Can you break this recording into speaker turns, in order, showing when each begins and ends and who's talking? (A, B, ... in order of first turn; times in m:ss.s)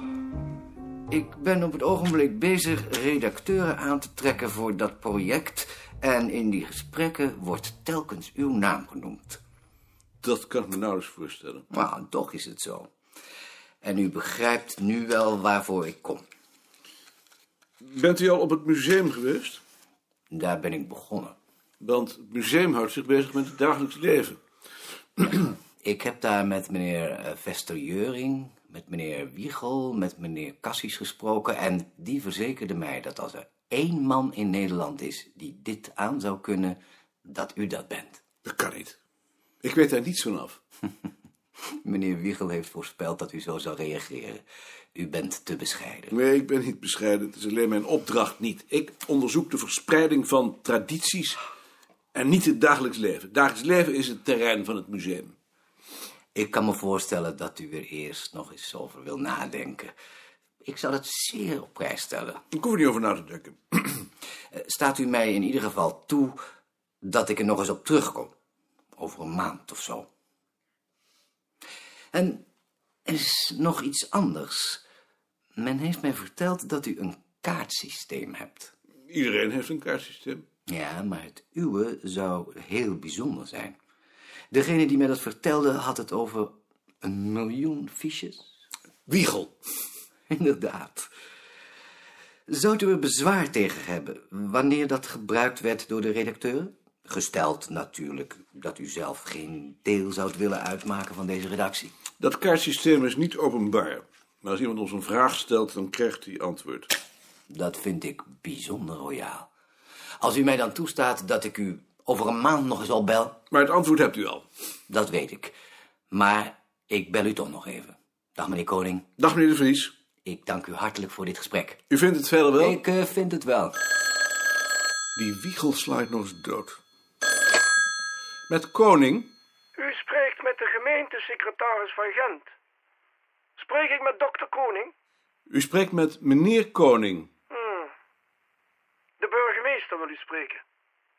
0:01.1-0:09.4 A
0:10.2-0:11.6 B
0:11.7-0:12.9 A
0:13.8-0:16.2 A
0:17.8-0:19.6 B
0:20.3-0:21.3 A
0:21.8-0:24.4 B
0:25.3-0:38.2 A
0:38.4-0:39.0 B
0:39.6-0:40.6 B
0:41.7-0:44.4 A
0:44.9-0:46.1 A
0:46.1-0:51.4 B
0:52.1-0:55.3 B
0:56.3-0:59.9 A
1:00.6-1:02.4 A
1:02.5-1:04.0 B
1:04.5-1:06.4 A
1:07.0-1:08.3 A
1:09.0-1:10.1 A
1:12.1-1:12.4 A
1:13.0-1:14.8 A
1:15.6-1:18.7 A
1:19.1-1:20.4 B
1:20.7-1:23.8 A
1:24.5-1:28.6 A
1:29.1-1:29.5 B
1:30.3-1:31.1 A
1:32.5-1:41.9 A
1:42.2-1:46.9 B
1:47.5-1:49.5 A
1:50.2-1:53.4 A
1:53.5-1:54.4 B
1:54.9-1:55.5 A
1:56.1-1:59.0 A
1:59.2-1:59.9 B
2:00.2-2:01.8 A
2:01.9-2:02.8 B
2:02.6-2:03.8 A
2:05.2-2:06.8 B
2:08.5-2:09.3 B
2:09.8-2:12.5 C
2:13.6-2:14.9 C
2:15.5-2:17.3 B
2:17.5-2:17.9 C
2:19.2-2:20.6 C